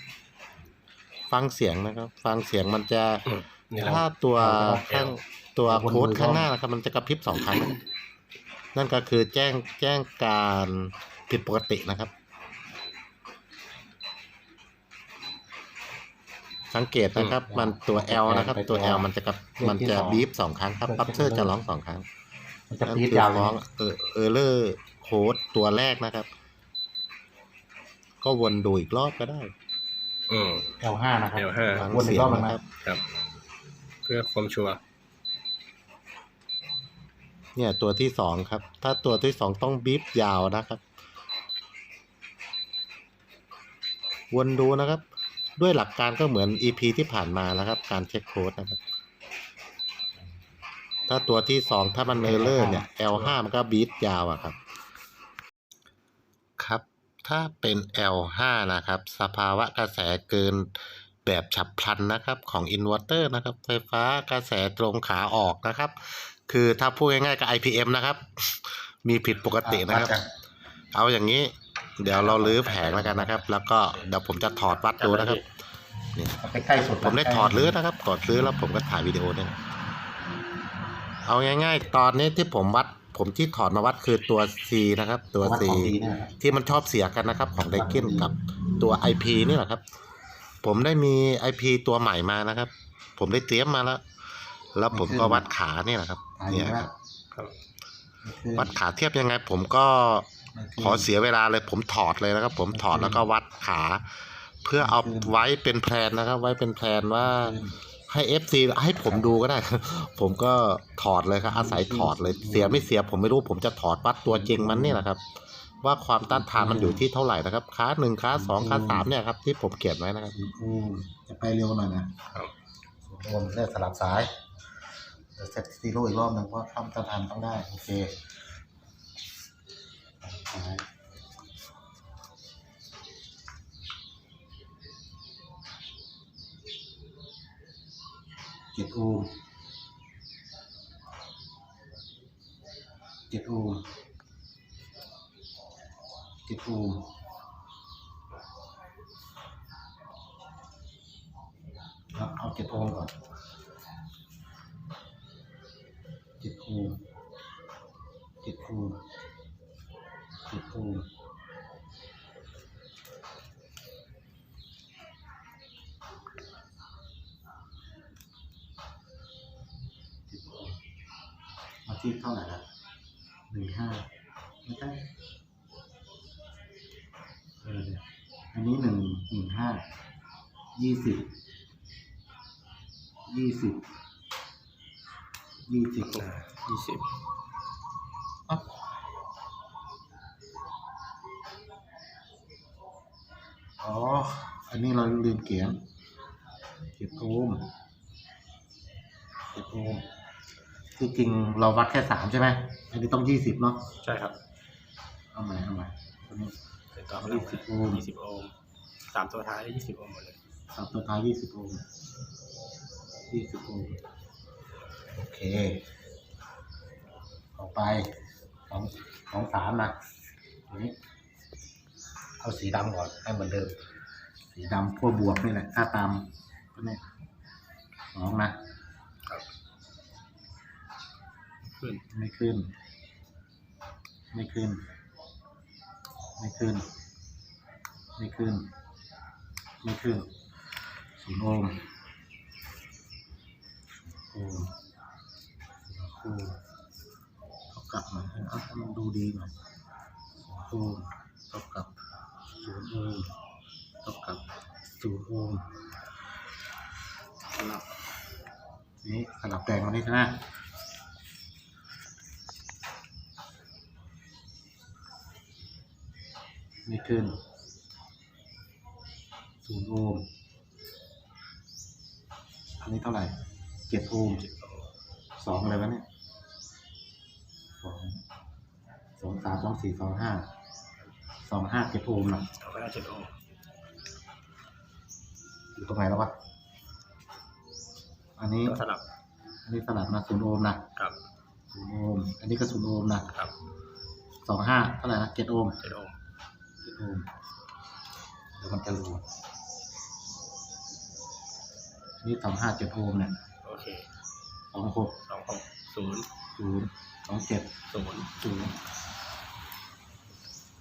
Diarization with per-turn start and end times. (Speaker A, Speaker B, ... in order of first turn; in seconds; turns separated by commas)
Speaker A: 1.3-7.8, Speaker B: 3.3-4.0, Speaker C: 4.4-5.0, Speaker B: 4.9-5.2, Speaker C: 5.7-6.5, Speaker A: 8.8-12.1, Speaker A: 16.7-22.1, Speaker C: 17.1-20.3, Speaker C: 20.8-21.5, Speaker C: 22.7-23.5, Speaker A: 22.9-26.3, Speaker A: 28.2-29.5, Speaker B: 30.3-30.7, Speaker C: 30.8-32.6, Speaker B: 31.4-31.9, Speaker A: 31.7-32.6, Speaker B: 34.0-34.8, Speaker A: 37.6-40.8, Speaker A: 44.3-45.0, Speaker A: 45.6-48.8, Speaker A: 51.1-54.6, Speaker C: 52.2-52.9, Speaker A: 56.6-70.2, Speaker C: 69.6-70.3, Speaker A: 70.9-75.4, Speaker B: 72.1-73.4, Speaker B: 75.0-75.4, Speaker A: 76.2-79.6, Speaker C: 76.4-77.8, Speaker A: 81.2-89.8, Speaker C: 85.4-86.3, Speaker C: 87.7-88.3, Speaker A: 90.6-94.0, Speaker A: 94.7-96.9, Speaker C: 94.9-95.5, Speaker C: 96.4-96.9, Speaker C: 98.2-98.8, Speaker A: 98.6-100.3, Speaker C: 100.5-101.1, Speaker A: 100.8-107.6, Speaker C: 102.7-103.3, Speaker C: 104.8-105.3, Speaker C: 107.2-107.8, Speaker A: 108.1-115.2, Speaker C: 111.5-112.9, Speaker C: 114.3-115.0, Speaker A: 115.8-120.4, Speaker C: 116.2-117.1, Speaker C: 118.3-119.1, Speaker C: 120.3-122.2, Speaker C: 123.0-124.3, Speaker C: 125.4-128.2, Speaker C: 130.2-130.9, Speaker C: 138.7-139.3, Speaker C: 143.3-143.8, Speaker C: 146.5-147.1, Speaker C: 152.1-153.1, Speaker C: 156.4-157.0, Speaker C: 158.4-159.0, Speaker C: 160.5-161.1, Speaker C: 170.3-170.8, Speaker C: 171.9-172.7, Speaker C: 173.5-174.1, Speaker C: 174.6-175.0, Speaker C: 177.6-179.8, Speaker C: 180.8-181.3, Speaker C: 183.3-183.8, Speaker C: 185.7-186.3, Speaker B: 186.1-187.1, Speaker C: 193.8-195.8, Speaker C: 197.0-197.7, Speaker C: 199.5-200.1, Speaker C: 201.0-203.9, Speaker B: 204.0-204.4, Speaker C: 205.3-206.5, Speaker B: 207.0-208.5, Speaker C: 207.2-208.0, Speaker B: 209.1-210.4, Speaker C: 210.7-211.8, Speaker C: 213.3-214.0, Speaker C: 215.1-215.8, Speaker C: 217.6-218.2, Speaker C: 218.7-220.0, Speaker C: 220.7-220.9, Speaker C: 222.4-223.8, Speaker C: 224.5-227.1, Speaker C: 228.1-228.6, Speaker B: 231.8-232.0, Speaker C: 232.1-232.7, Speaker C: 234.3-234.8, Speaker C: 236.4-236.9, Speaker C: 238.2-238.7, Speaker C: 239.8-240.3, Speaker C: 241.2-241.9, Speaker C: 244.2-244.8, Speaker C: 245.9-246.6, Speaker C: 247.7-249.5, Speaker C: 250.4-251.9, Speaker C: 252.6-253.3, Speaker C: 254.0-254.4, Speaker C: 255.0-255.7, Speaker C: 259.0-260.4, Speaker C: 266.9-267.4, Speaker C: 269.6-270.3, Speaker C: 272.8-273.3, Speaker C: 273.9-274.4, Speaker B: 274.4-274.9, Speaker C: 275.4-276.1, Speaker C: 277.8-278.2, Speaker C: 279.2-280.5, Speaker C: 281.4-282.5, Speaker B: 282.6-283.3, Speaker C: 285.8-286.3, Speaker C: 288.4-288.8, Speaker B: 288.7-289.0, Speaker C: 289.7-290.8, Speaker C: 291.7-293.3, Speaker C: 294.4-295.8, Speaker B: 295.8-296.2, Speaker C: 296.8-297.3, Speaker C: 298.6-299.2, Speaker C: 302.2-303.4, Speaker B: 303.6-304.1, Speaker C: 304.7-305.2, Speaker B: 305.3-306.3, Speaker C: 306.6-307.7, Speaker B: 307.9-308.3, Speaker C: 308.4-308.8